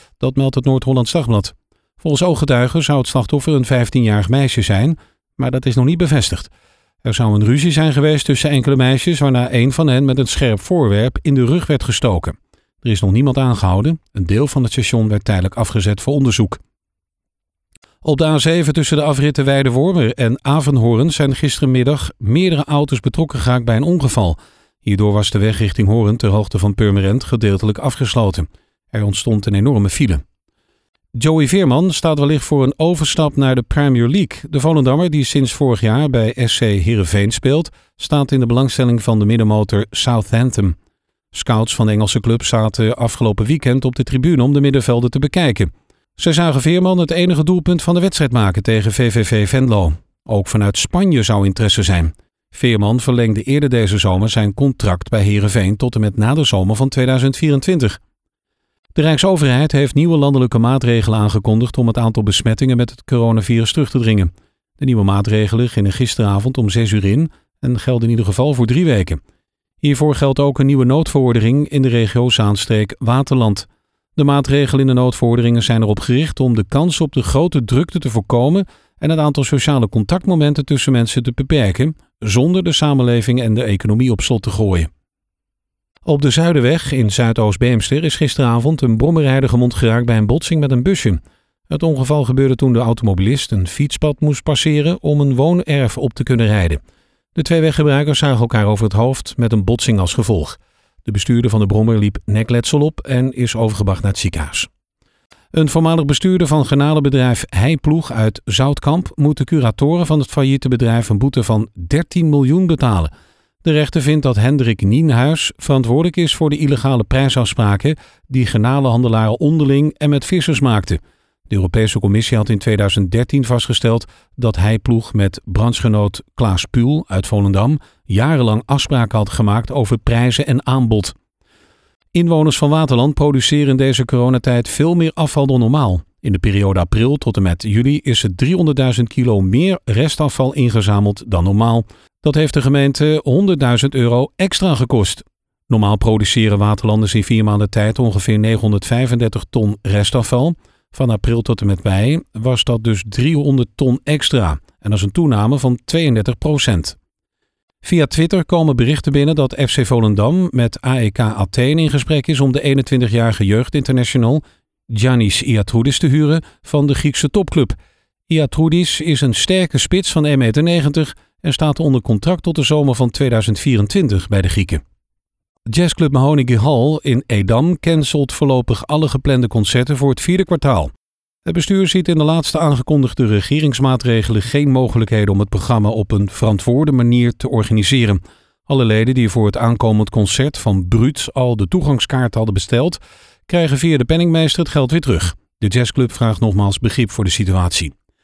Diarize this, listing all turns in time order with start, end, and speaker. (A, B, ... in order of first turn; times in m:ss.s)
0:00.2-0:06.5 A
0:07.0-0:16.6 A
0:18.0-0:30.2 A
0:31.2-0:40.8 A
0:41.3-0:58.0 A
0:59.0-1:09.2 A
1:09.8-1:24.9 A
1:26.0-1:36.8 A
1:37.4-1:44.7 A
1:45.5-1:53.1 A
1:53.6-2:11.2 A
2:12.1-2:37.0 A
2:37.8-2:47.8 A
2:48.3-2:54.8 A
2:55.7-3:00.9 A
3:01.4-3:17.9 A